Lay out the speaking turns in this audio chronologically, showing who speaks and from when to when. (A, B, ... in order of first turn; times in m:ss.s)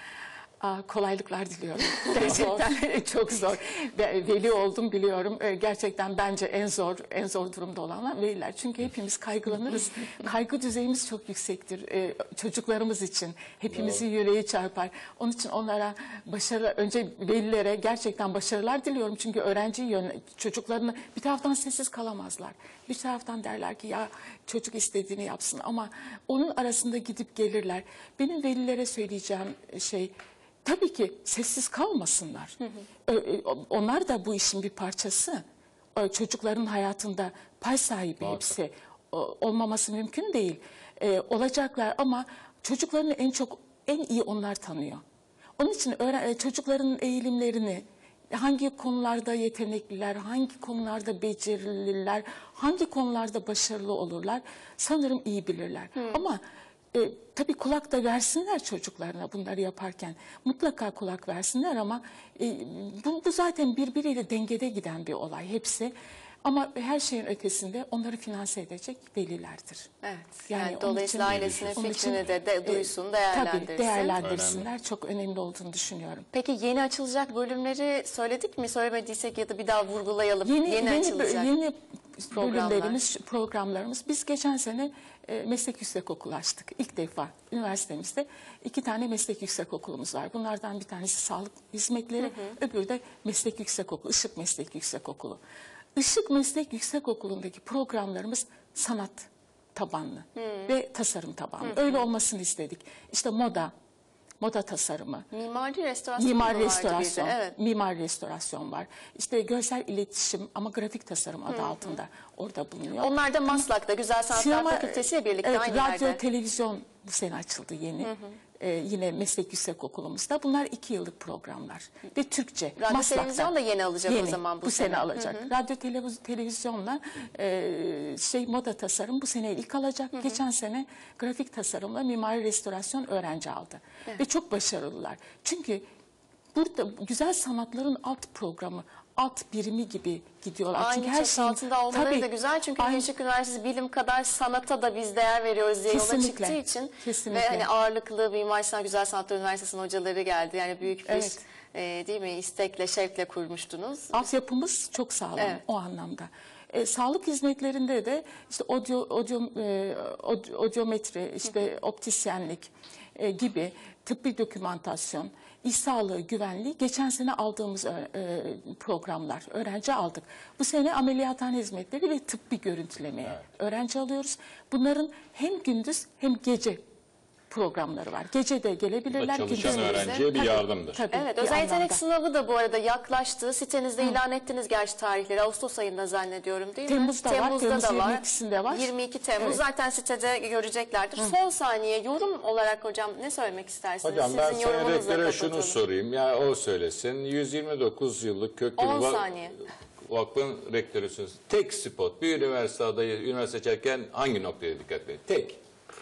0:00.6-0:35.4 A
0:02.0-0:02.7 B
0:13.7-0:14.0 C
0:35.9-0:45.0 A
0:45.6-0:56.4 A
0:56.0-0:56.2 B
0:56.9-1:09.9 A
1:10.0-1:14.2 B
1:10.5-1:16.3 A
1:11.2-1:12.3 C
1:14.2-1:14.7 C
1:16.3-1:21.5 B
1:20.4-1:35.4 A
1:22.3-1:23.0 B
1:32.2-1:32.5 B
1:36.0-1:43.7 A
1:40.4-1:40.7 B
1:41.6-1:42.0 B
1:44.4-1:45.3 A
1:45.3-1:47.5 B
1:46.2-1:53.6 A
1:51.5-1:52.0 B
1:53.0-1:56.2 B
1:54.3-2:03.5 A
1:58.0-1:58.4 B
2:02.8-2:05.5 B
2:04.1-2:15.8 A
2:16.5-2:23.1 A
2:20.7-2:34.3 B
2:25.9-2:27.7 A
2:31.0-2:31.4 A
2:34.1-2:56.8 A
2:57.5-3:02.0 A
2:59.1-3:01.0 C
2:59.6-3:00.3 B
3:01.1-3:15.8 B
3:06.8-3:09.6 A
3:14.0-3:25.6 C
3:18.8-3:19.5 B